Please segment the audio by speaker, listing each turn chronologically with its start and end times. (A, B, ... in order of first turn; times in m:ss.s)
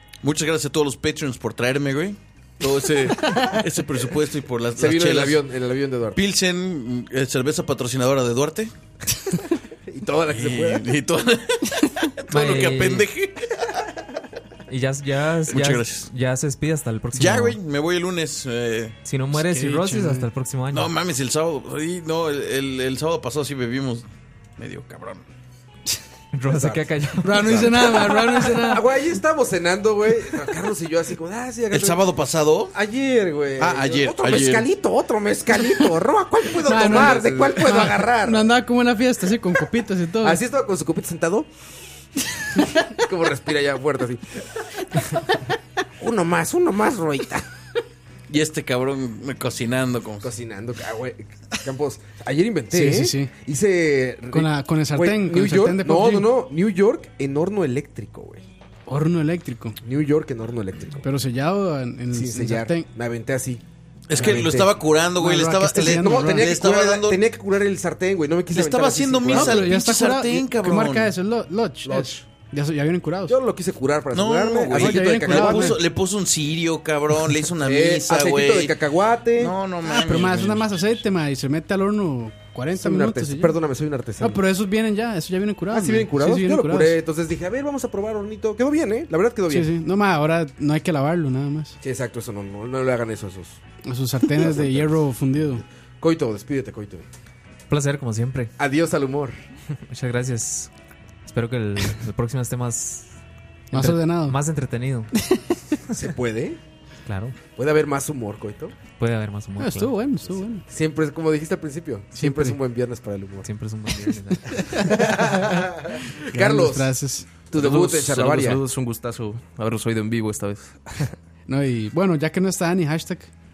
0:00.2-0:05.4 A
0:04.8-0:06.2 B
0:06.1-0:08.7 A
0:09.9-0:10.8 B
0:10.3-0:13.8 A
0:12.3-0:13.1 C
0:14.7-0:17.6 C
0:15.5-0:16.1 A
0:17.2-0:19.0 A
0:19.0-0:20.9 C
0:19.3-0:20.3 D
0:20.7-0:24.0 A
0:24.6-0:25.2 A
0:26.3-0:28.4 C
0:26.5-0:32.0 B
0:27.2-0:28.8 D
0:31.7-0:32.8 A
0:32.7-0:38.5 B
0:33.6-0:34.7 A
0:36.6-0:40.4 D
0:40.2-0:41.5 B
0:42.6-0:44.2 B
0:46.0-0:47.5 B
0:48.3-0:50.3 A
0:50.2-0:58.4 B
0:52.7-0:53.3 D
0:54.3-0:56.3 D
0:58.9-0:59.8 D
0:59.8-1:01.1 B
1:01.0-1:02.9 D
1:02.1-1:04.7 B
1:04.1-1:07.2 A
1:05.2-1:06.5 D
1:05.8-1:09.7 B
1:08.5-1:11.1 A
1:09.3-1:13.4 D
1:11.8-1:12.2 B
1:13.3-1:15.8 B
1:14.1-1:18.7 A
1:14.8-1:15.8 D
1:17.6-1:19.6 B
1:19.4-1:20.6 A
1:19.8-1:23.6 D
1:22.8-1:24.4 B
1:24.2-1:27.0 D
1:25.7-1:29.7 B
1:29.5-1:31.8 D
1:31.8-1:33.6 B
1:33.8-1:35.6 D
1:34.4-1:35.0 B
1:36.0-1:37.1 B
1:37.7-1:38.5 C
1:38.6-1:39.4 B
1:39.9-1:40.7 C
1:41.3-1:43.1 C
1:43.7-1:44.4 D
1:43.7-1:45.1 C
1:45.9-1:46.6 B
1:47.1-1:47.4 C
1:47.5-1:48.8 B
1:48.9-1:50.1 C
1:49.6-1:50.6 D
1:50.7-1:53.5 B
1:52.2-1:52.6 D
1:53.4-1:55.0 C
1:54.4-1:55.5 D
1:55.0-1:56.9 B
1:56.1-1:57.3 D
1:57.5-1:58.6 B
1:57.6-2:01.1 E
2:01.5-2:03.3 D